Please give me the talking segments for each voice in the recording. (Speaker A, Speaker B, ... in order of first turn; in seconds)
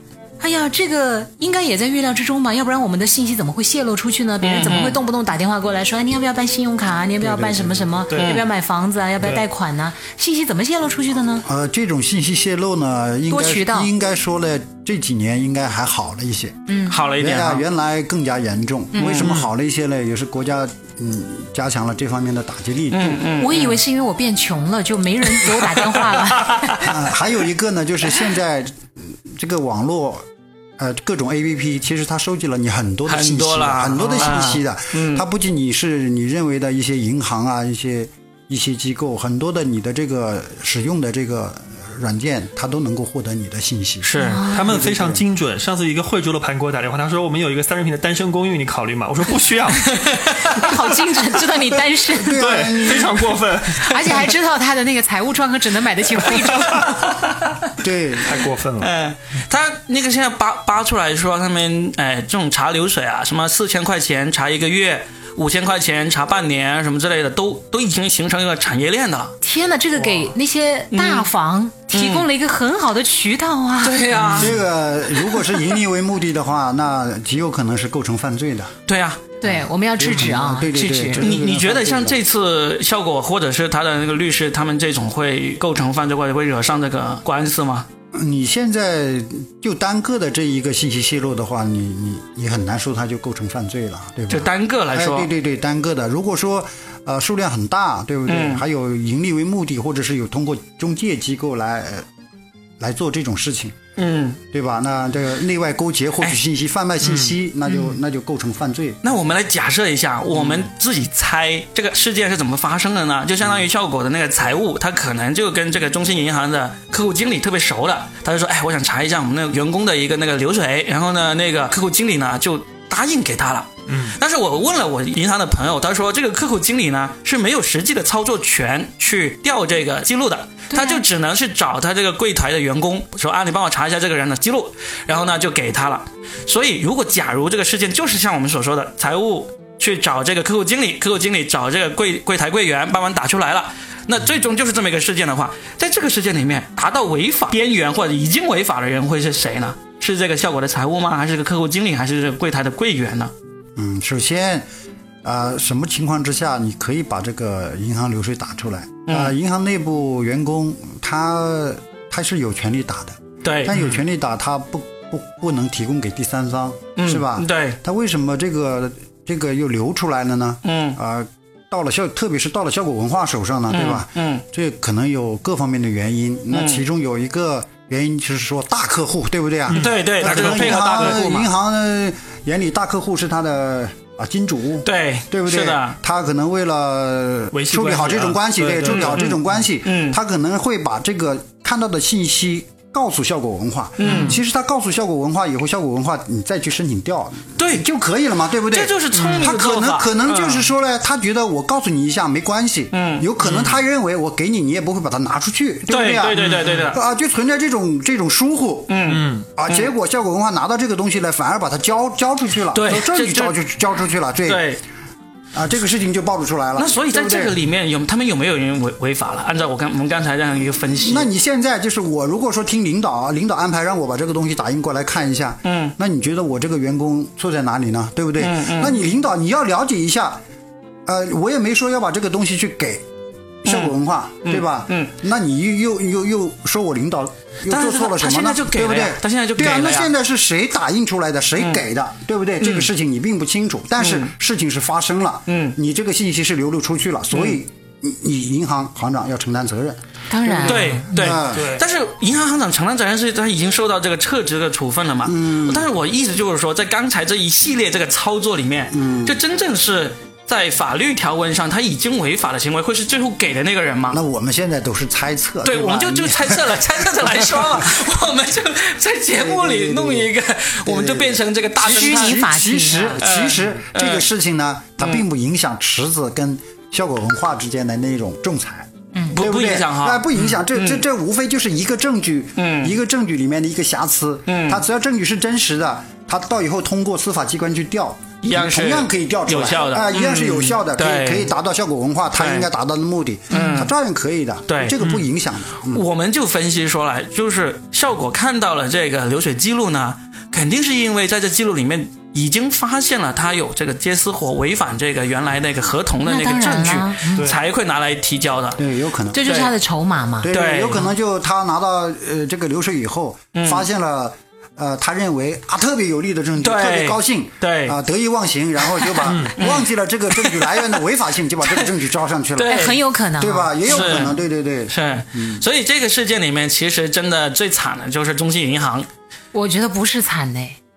Speaker A: 0.4-11.4, 13.3-13.9, 16.7-17.0, 23.4-26.9, 44.2-44.8, 50.5-52.5, 53.8-57.2, 69.4-74.5, 79.4-81.3, 130.7-131.0, 250.3-251.1, 271.9-273.2, 293.5-293.9, 306.2-307.5, 309.3-310.5, 322.7-324.2, 329.5-330.8
Speaker B: 4.4-5.0, 8.1-8.4, 16.9-17.6, 18.9-19.4, 22.9-23.8, 25.4-26.9, 33.1-35.2, 44.0-44.5, 58.8-69.3, 70.9-71.3, 71.9-72.2, 73.8-74.6, 78.9-79.3, 81.2-87.9, 94.3-95.3, 98.3-98.6, 104.0-104.4, 109.0-153.3, 159.1-159.3, 163.4-163.8, 167.0-167.8, 170.7-171.0, 173.7-174.4, 176.5-176.8, 179.7-181.5, 184.8-186.0, 188.9-190.2, 194.0-194.4, 197.6-197.8, 198.7-200.7, 202.9-203.3, 205.9-207.0, 208.9-209.9, 212.7-213.6, 214.5-214.8, 216.8-221.3, 225.7-225.9, 228.4-229.0, 233.7-233.9, 234.4-235.1, 237.7-240.1, 242.6-242.9, 244.0-244.3, 245.5-245.8, 250.6-264.2, 265.6-272.4, 273.2-274.3, 279.3-281.0, 282.6-282.9, 284.5-284.8, 288.4-291.5, 292.4-292.7, 293.5-293.9, 294.7-295.1, 295.9-308.8, 309.4-309.7, 310.5-311.1, 313.5-313.9, 316.6-318.0, 319.0-320.8, 322.6-323.0, 323.9-324.4, 324.9-329.1
Speaker C: 7.2-8.0, 11.4-16.6, 17.2-23.2, 26.8-30.3, 30.8-45.2, 52.1-53.3, 57.8-58.4, 74.3-78.7, 79.5-82.2, 88.1-102.1, 102.8-103.8, 104.5-109.0, 153.8-154.7, 155.2-208.9, 209.6-214.7, 215.5-217.5, 221.0-230.4, 231.1-233.1, 233.6-251.8, 255.2-255.9, 258.9-259.4, 264.1-268.0, 269.4-270.3, 270.9-296.1, 308.8-309.4, 310.4-322.9, 323.4-325.6
Speaker D: 8.1-8.4, 44.5-50.7, 52.3-54.3, 56.2-57.0, 58.2-58.9, 107.0-107.3, 123.9-124.2, 179.7-181.2, 187.5-189.4, 194.0-194.4, 199.2-199.5, 203.4-203.8, 206.3-206.9, 209.1-209.4, 251.5-251.8, 319.3-319.5